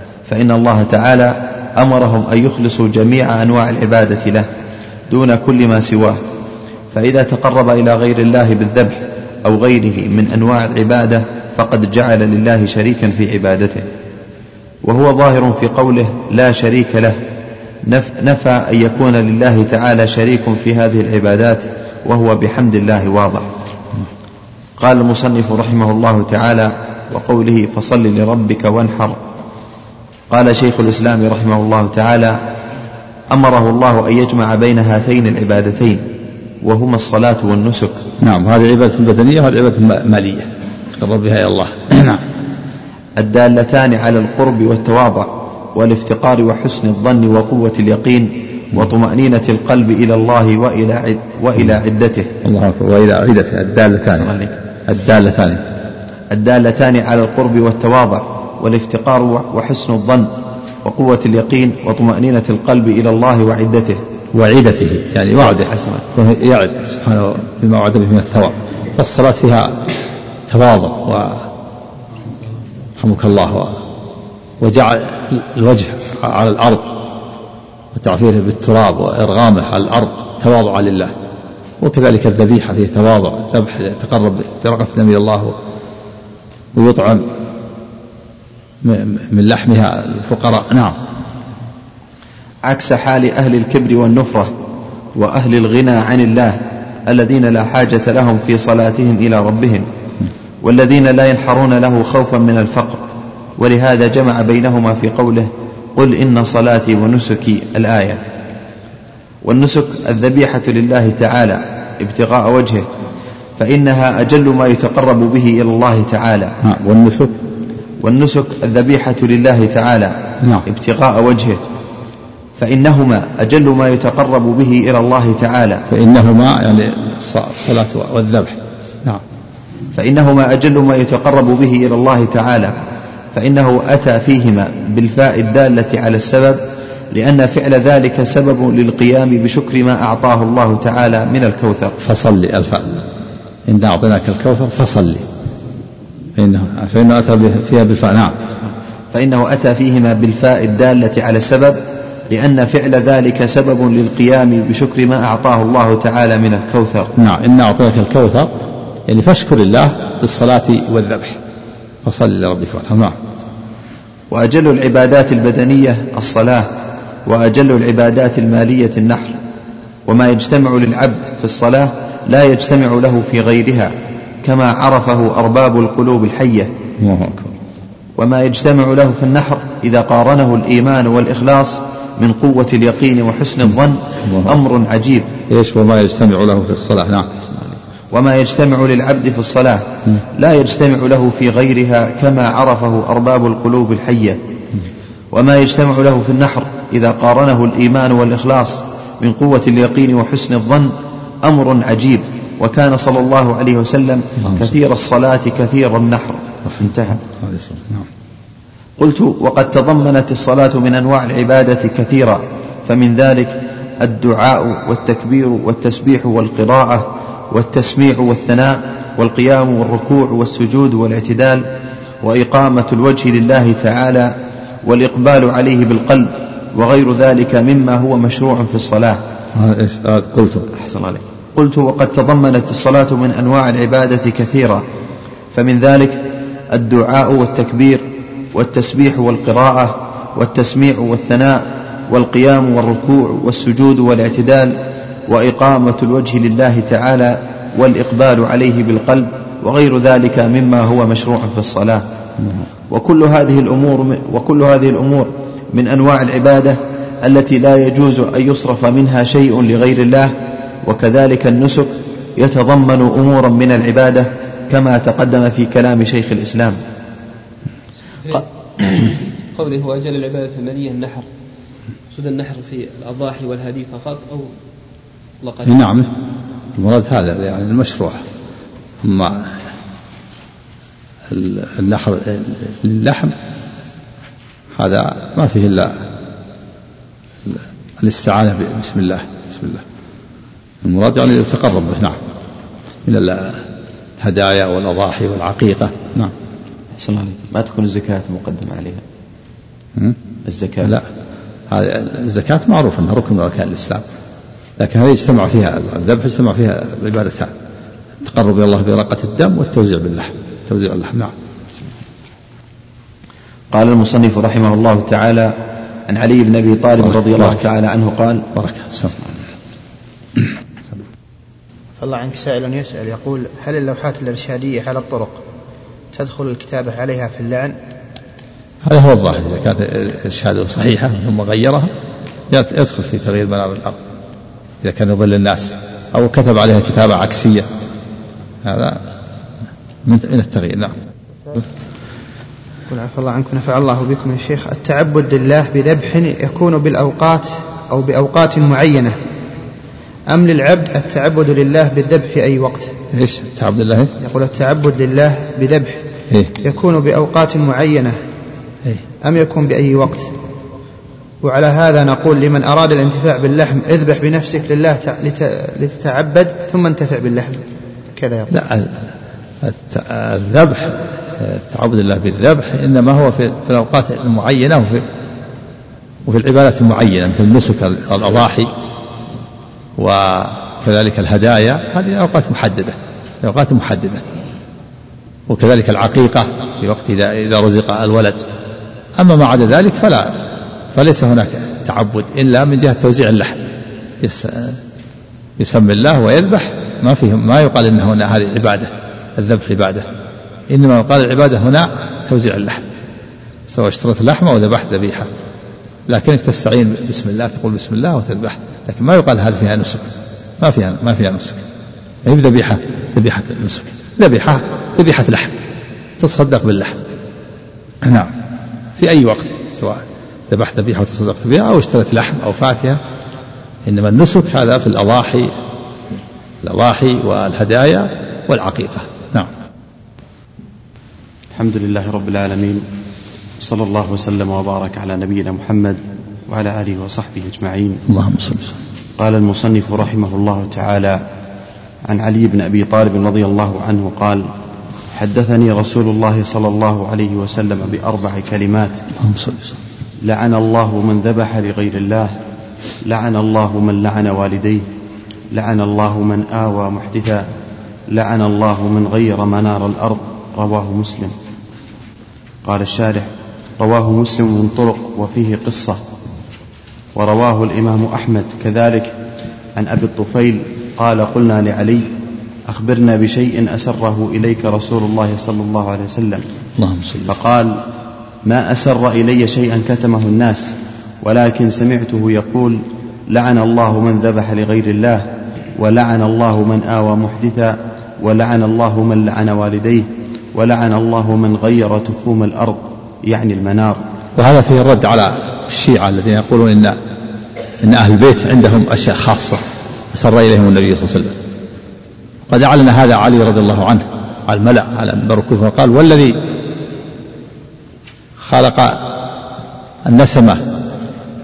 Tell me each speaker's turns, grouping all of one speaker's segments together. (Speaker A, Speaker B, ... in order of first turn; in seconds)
Speaker A: 0.3-4.5, 5.1-6.2, 6.9-13.8, 14.8-17.2, 17.8-23.5, 24.8-29.2, 30.3-32.4, 33.3-36.1, 36.6-38.0, 43.2-52.3, 54.2-54.5, 56.3-64.0, 65.5-66.0, 92.7-94.5, 95.2-99.9, 100.6-108.2, 109.4-112.9, 113.6-116.6, 118.0-121.6, 122.6-125.8, 129.9-132.8, 133.3-142.0, 149.1-157.1, 164.3-166.7, 167.2-169.4, 170.1-176.7, 178.2-185.3, 187.4-194.4, 195.3-207.2, 209.0-221.6, 222.2-229.2, 230.7-234.8, 235.5-236.2, 236.7-252.0, 252.9-266.8, 296.9-299.0, 300.4-300.9, 313.7-315.5, 316.1-318.5, 431.5-432.9, 433.6-438.0, 439.2-441.2, 442.0-444.5, 445.1-449.0, 450.2-452.4, 453.0-454.9, 455.5-457.5, 458.1-461.3, 462.6-466.0, 467.1-469.2, 469.8-472.1, 472.7-476.5, 477.2-477.8, 478.4-494.0
Speaker B: 38.2-42.2, 52.4-54.3, 54.9-55.6, 64.3-69.7, 70.5-71.5, 73.0-73.7, 74.6-77.0, 77.9-81.1, 81.8-85.5, 86.7-87.3, 88.8-90.9, 116.6-117.3, 125.9-129.2, 142.0-143.0, 143.7-145.2, 146.3-148.5, 157.2-158.5, 159.1-161.4, 162.0-163.2, 177.0-177.5, 185.5-187.3, 207.4-208.1, 229.5-230.7, 275.6-276.1, 276.8-278.2, 279.0-279.5, 281.3-283.3, 284.8-285.9, 287.4-289.8, 290.8-292.2, 293.0-293.6, 294.2-296.3, 301.7-304.0, 304.8-307.5, 308.2-311.3, 318.6-319.1, 328.8-331.9, 332.5-334.0, 334.8-337.7, 338.6-339.0, 340.0-340.9, 353.1-354.1, 368.5-369.1, 369.6-375.0, 376.2-378.7, 380.0-384.2, 385.5-388.5, 389.2-393.6, 394.2-394.8, 395.6-400.1, 400.7-402.8, 403.7-405.3, 406.1-411.6, 412.2-415.6, 416.2-417.0, 418.0-418.3, 419.0-423.0, 423.9-425.5, 426.6-429.5, 438.1-438.7, 449.2-449.8, 476.8-477.3, 494.4-497.0, 497.8-501.3, 502.5-506.4, 508.4-509.2, 510.1-510.6
Speaker C: 268.2-271.2, 272.1-274.5, 275.4-275.8
Speaker D: 322.0-325.4, 326.1-327.8, 342.9-349.1, 350.3-352.9, 354.2-356.0, 356.6-358.2, 359.2-360.3, 361.4-368.5